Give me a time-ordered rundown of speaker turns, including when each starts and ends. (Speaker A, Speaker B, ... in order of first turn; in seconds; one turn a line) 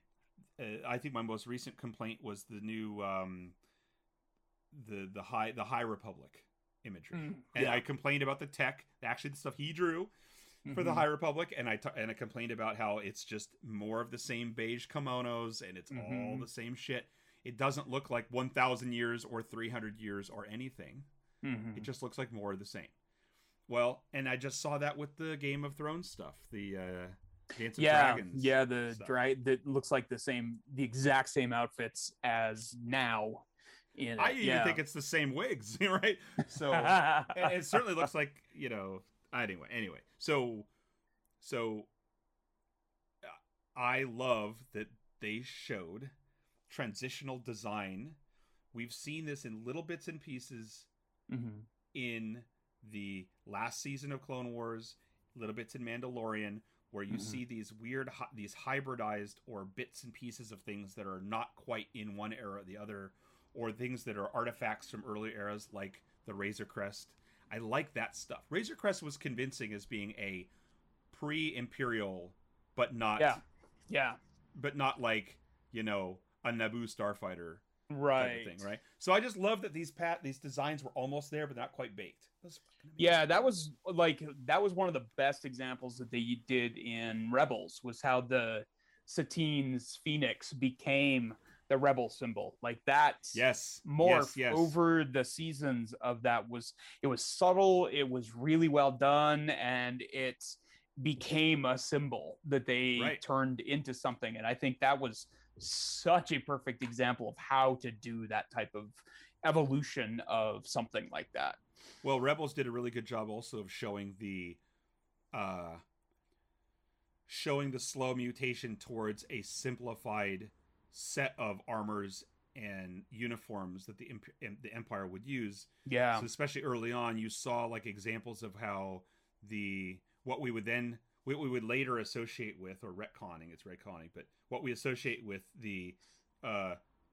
Speaker A: 0.6-3.6
Speaker A: 4.7-10.1
Speaker B: 7.1-7.8
Speaker B: 10.7-11.1
Speaker A: 10.7-21.1
Speaker B: 15.9-16.5
Speaker B: 21.4-21.9
Speaker A: 21.8-22.9
Speaker A: 23.7-29.1
Speaker B: 27.8-34.8
Speaker A: 34.2-40.7
Speaker B: 36.7-37.8
Speaker A: 41.4-41.9
Speaker A: 43.2-46.1
Speaker A: 46.7-48.2
Speaker A: 48.7-50.9
Speaker B: 51.3-51.7
Speaker A: 51.9-70.5
Speaker B: 57.1-57.4
Speaker A: 71.1-73.4
Speaker B: 73.2-74.2
Speaker A: 74.5-77.7
Speaker B: 77.9-78.7
Speaker A: 78.2-83.5
Speaker B: 83.0-111.6
Speaker A: 93.3-94.7
Speaker A: 103.0-103.2
Speaker A: 112.0-114.6
Speaker A: 115.3-115.8
Speaker A: 117.3-136.8
Speaker B: 125.9-126.3